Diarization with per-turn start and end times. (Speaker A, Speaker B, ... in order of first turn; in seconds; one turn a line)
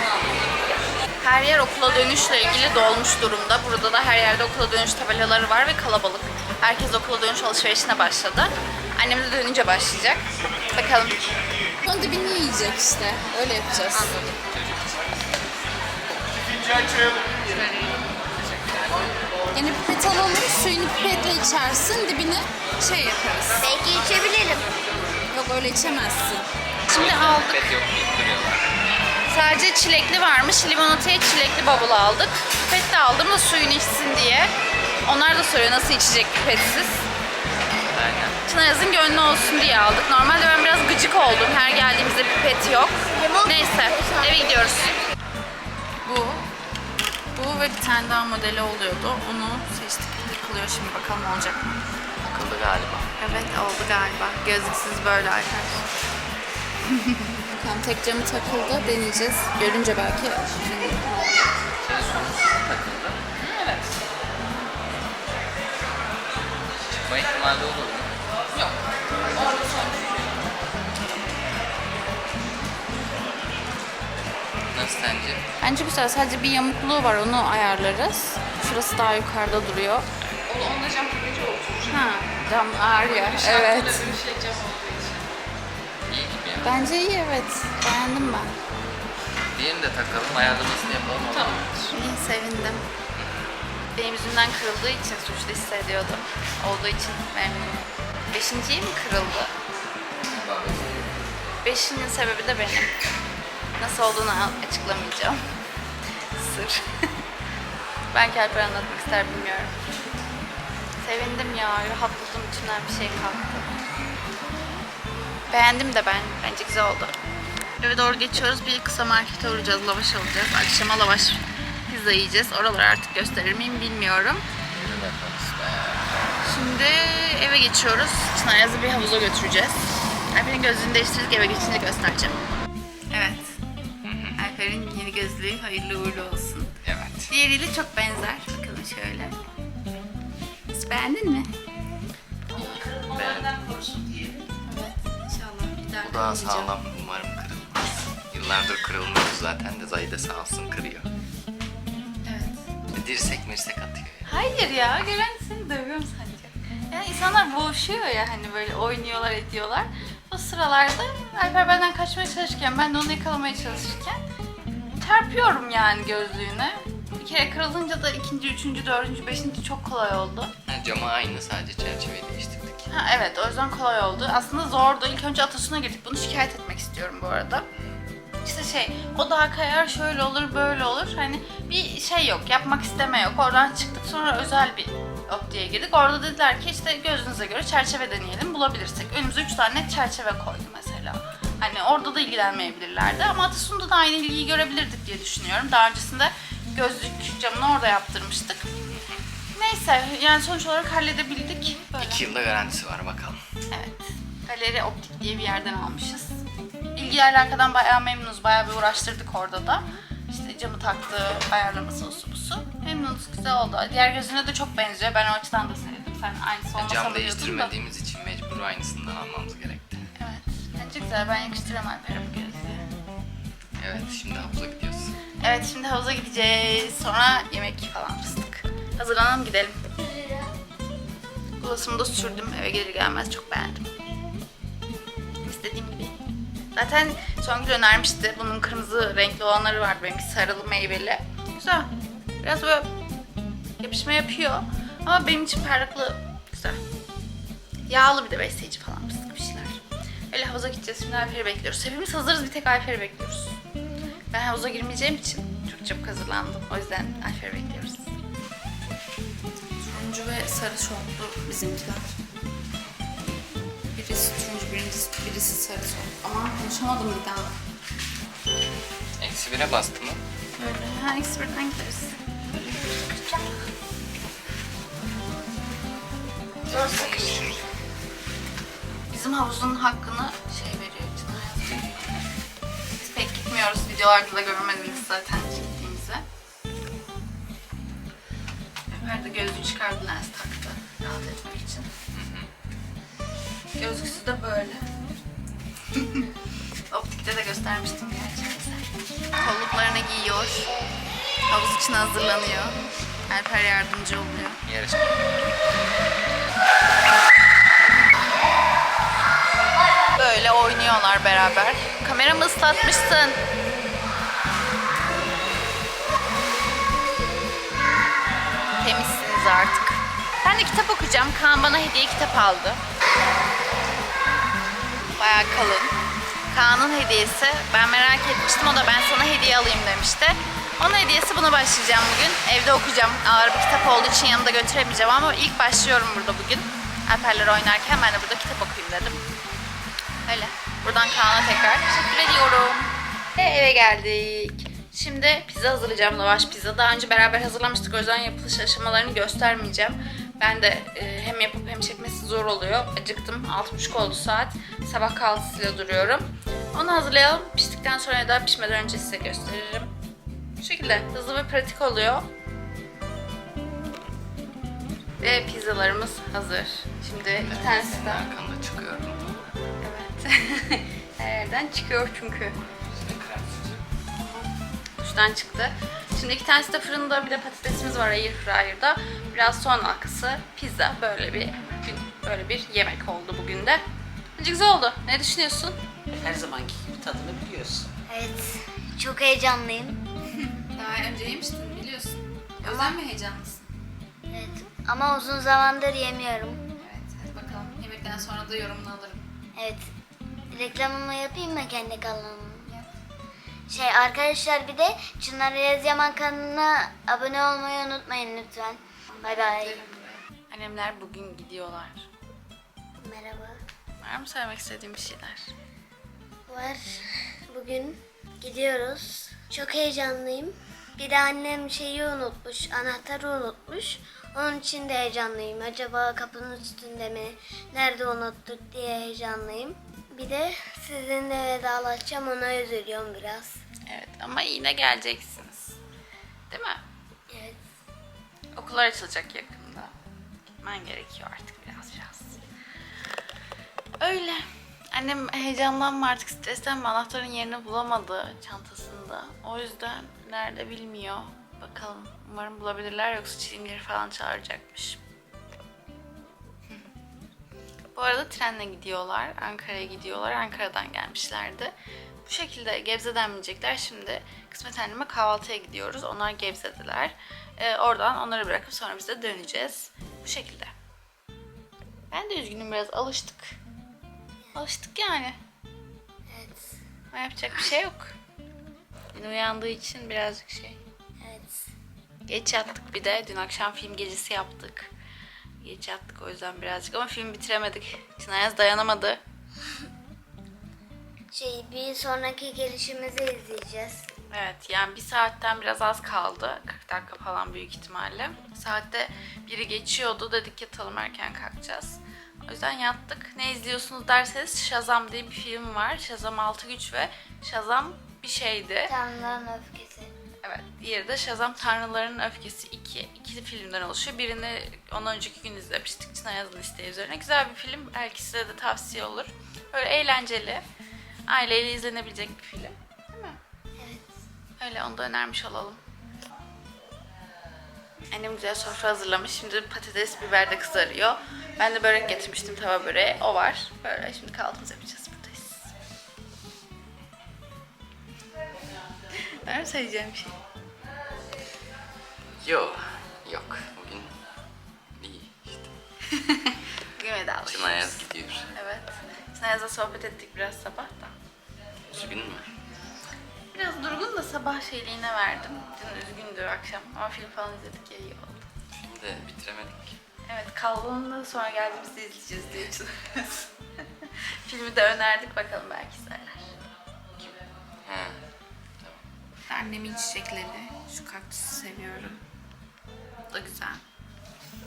Speaker A: 1.2-10.2
Speaker A: 10.7-11.2
Speaker A: 11.8-14.2
Speaker B: 14.4-15.1
Speaker A: 17.4-18.0
Speaker B: 18.3-19.1
Speaker A: 19.6-23.6
Speaker C: 23.6-24.7
Speaker A: 25.3-27.6
Speaker B: 26.9-28.6
Speaker A: 29.3-34.5
Speaker A: 35.1-37.1
Speaker B: 37.9-38.4
Speaker A: 38.5-45.0
Speaker C: 43.2-44.4
Speaker A: 46.0-46.5
Speaker A: 47.4-51.8
Speaker B: 52.2-53.1
Speaker A: 53.2-55.9
Speaker A: 56.9-61.5
Speaker B: 61.8-63.2
Speaker D: 63.4-63.9
Speaker B: 66.9-68.1
Speaker A: 68.5-70.2
Speaker B: 74.7-75.4
Speaker A: 75.6-80.1
Speaker D: 80.5-82.0
Speaker A: 81.9-84.1
Speaker D: 83.0-85.3
Speaker B: 86.1-86.8
Speaker A: 86.6-88.5
Speaker B: 89.5-91.7
Speaker D: 91.2-91.9
Speaker A: 91.9-92.9
Speaker B: 93.1-93.5
Speaker A: 94.0-99.5
Speaker B: 100.3-101.2
Speaker A: 101.6-102.9
Speaker A: 103.8-105.4
Speaker A: 106.4-107.1
Speaker A: 108.1-109.7
Speaker A: 111.0-113.7
Speaker A: 115.5-117.2
Speaker A: 117.8-124.4
Speaker B: 124.7-126.1
Speaker A: 126.4-132.4
Speaker A: 133.1-133.6
Speaker B: 134.0-134.4
Speaker A: 134.4-136.7
Speaker B: 136.8-137.3
Speaker A: 137.3-139.3
Speaker A: 140.7-141.5
Speaker E: 142.5-144.5
Speaker B: 143.1-143.5
Speaker A: 144.7-146.7
Speaker B: 146.0-151.1
Speaker A: 152.2-152.6
Speaker B: 152.9-154.3
Speaker A: 154.3-164.2
Speaker A: 165.0-170.5
Speaker B: 170.7-172.9
Speaker A: 172.9-177.7
Speaker A: 178.4-198.7
Speaker A: 199.6-202.2
Speaker B: 202.0-203.4
Speaker A: 203.7-206.4
Speaker A: 206.9-217.7
Speaker B: 216.8-220.1
Speaker A: 220.2-222.8
Speaker B: 223.8-225.2
Speaker A: 225.4-229.8
Speaker C: 230.0-230.5
Speaker A: 231.6-233.9
Speaker A: 235.4-236.2
Speaker A: 236.8-241.9
Speaker A: 242.4-242.9
Speaker A: 243.8-246.8
Speaker A: 247.9-249.8
Speaker A: 250.3-253.6
Speaker A: 254.3-258.1
Speaker A: 259.8-262.1
Speaker A: 263.9-267.6
Speaker B: 269.2-270.2
Speaker A: 270.6-272.9
Speaker C: 272.8-273.6
Speaker B: 276.7-277.7
Speaker C: 276.7-277.6
Speaker A: 279.1-282.0
Speaker A: 283.0-286.2
Speaker A: 288.9-291.9
Speaker B: 292.1-292.5
Speaker A: 293.8-294.9
Speaker A: 296.0-296.2
Speaker A: 296.9-300.7
Speaker A: 301.5-302.8
Speaker A: 303.3-304.6
Speaker B: 304.6-305.2
Speaker A: 310.1-313.4
Speaker A: 318.8-322.8
Speaker A: 325.2-325.9
Speaker A: 326.5-339.2
Speaker A: 340.3-359.9
Speaker A: 360.6-362.3
Speaker A: 365.2-368.3
Speaker B: 367.4-369.5
Speaker A: 369.8-372.6
Speaker B: 372.8-373.8
Speaker A: 375.0-383.8
Speaker A: 384.4-385.8
Speaker E: 386.2-387.9
Speaker C: 388.1-390.0
Speaker A: 390.7-393.7
Speaker C: 392.6-393.0
Speaker C: 394.3-396.6
Speaker A: 396.8-399.3
Speaker C: 399.6-399.9
Speaker C: 400.5-402.7
Speaker C: 403.7-409.8
Speaker A: 409.1-412.1
Speaker C: 413.0-413.6
Speaker A: 414.0-415.5
Speaker C: 416.5-433.6
Speaker A: 433.9-435.8
Speaker A: 436.5-436.8
Speaker C: 437.3-437.6
Speaker A: 438.6-439.9
Speaker A: 440.6-442.4
Speaker A: 444.0-455.0
Speaker A: 457.9-461.7
Speaker A: 462.2-470.7
Speaker A: 472.1-473.6
Speaker A: 474.6-475.4
Speaker C: 476.3-476.8
Speaker A: 477.1-478.1
Speaker A: 479.1-480.8
Speaker C: 481.2-481.7
Speaker A: 482.3-484.9
Speaker A: 485.6-489.2
Speaker C: 491.3-494.1
Speaker A: 494.3-508.9
Speaker C: 508.9-510.1
Speaker A: 510.4-520.6
Speaker A: 521.3-523.4
Speaker C: 523.8-524.1
Speaker A: 524.6-525.8
Speaker A: 528.1-535.7
Speaker A: 539.3-540.4
Speaker B: 542.4-544.1
Speaker B: 545.0-545.7
Speaker A: 546.1-551.1
Speaker B: 547.5-548.5
Speaker B: 551.9-552.5
Speaker A: 553.5-558.5
Speaker B: 558.7-560.0
Speaker A: 560.3-563.5
Speaker A: 564.5-566.4
Speaker B: 567.2-568.2
Speaker A: 569.5-572.2
Speaker A: 573.3-573.8